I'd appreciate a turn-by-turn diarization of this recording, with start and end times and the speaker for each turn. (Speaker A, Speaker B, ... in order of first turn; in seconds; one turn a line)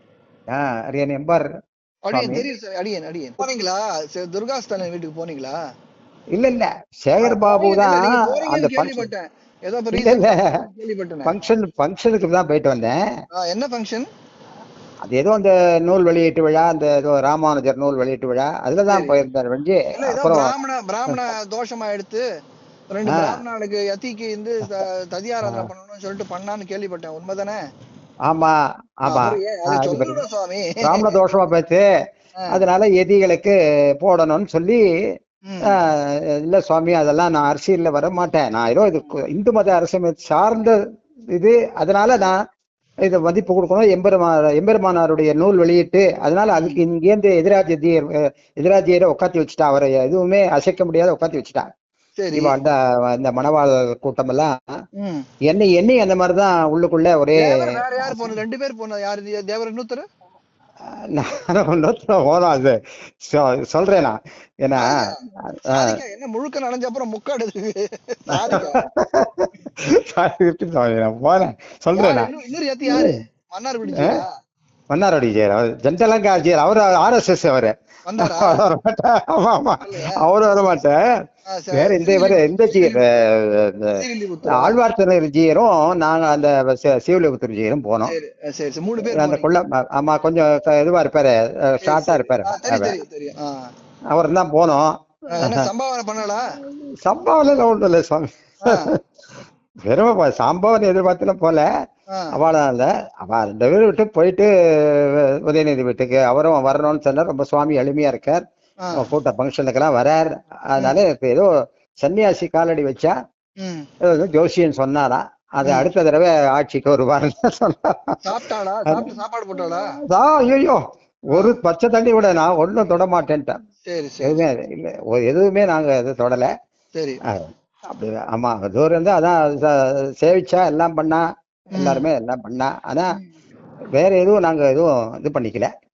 Speaker A: 0.5-1.5
Speaker B: 2.1-5.6
Speaker A: 2.1-2.5
Speaker A: 6.3-9.1
Speaker B: 7.2-11.3
Speaker A: 9.9-10.6
Speaker A: 11.3-13.0
Speaker B: 13.4-14.1
Speaker A: 15.0-20.5
Speaker B: 18.9-19.2
Speaker B: 19.9-22.2
Speaker B: 22.9-27.6
Speaker A: 23.1-23.4
Speaker A: 25.4-25.7
Speaker A: 28.3-30.2
Speaker B: 29.1-31.1
Speaker A: 30.8-31.9
Speaker A: 32.5-34.8
Speaker B: 35.5-35.8
Speaker A: 35.7-40.8
Speaker A: 41.3-42.4
Speaker A: 43.0-51.6
Speaker B: 46.5-46.8
Speaker B: 52.2-52.5
Speaker A: 52.4-54.5
Speaker B: 55.0-55.2
Speaker A: 55.5-58.4
Speaker B: 57.4-60.0
Speaker A: 61.1-65.0
Speaker B: 64.8-65.2
Speaker A: 65.6-66.0
Speaker B: 65.7-68.8
Speaker A: 68.3-72.3
Speaker B: 71.9-74.3
Speaker A: 74.9-81.0
Speaker B: 78.1-78.6
Speaker B: 79.8-80.2
Speaker B: 81.5-83.1
Speaker A: 81.8-84.0
Speaker B: 84.0-84.8
Speaker A: 84.5-88.1
Speaker B: 88.1-89.5
Speaker A: 89.0-93.0
Speaker B: 91.8-93.7
Speaker A: 94.1-95.7
Speaker B: 95.3-96.5
Speaker A: 96.6-98.9
Speaker B: 98.6-98.9
Speaker A: 99.9-101.7
Speaker A: 102.3-108.4
Speaker A: 109.0-111.5
Speaker A: 112.0-113.1
Speaker B: 113.6-113.9
Speaker A: 114.0-118.2
Speaker B: 115.6-115.9
Speaker B: 118.2-119.9
Speaker A: 120.1-123.5
Speaker B: 121.3-121.6
Speaker B: 123.9-124.4
Speaker A: 124.2-126.5
Speaker B: 127.0-127.2
Speaker A: 127.3-133.2
Speaker B: 131.7-132.0
Speaker A: 134.0-135.7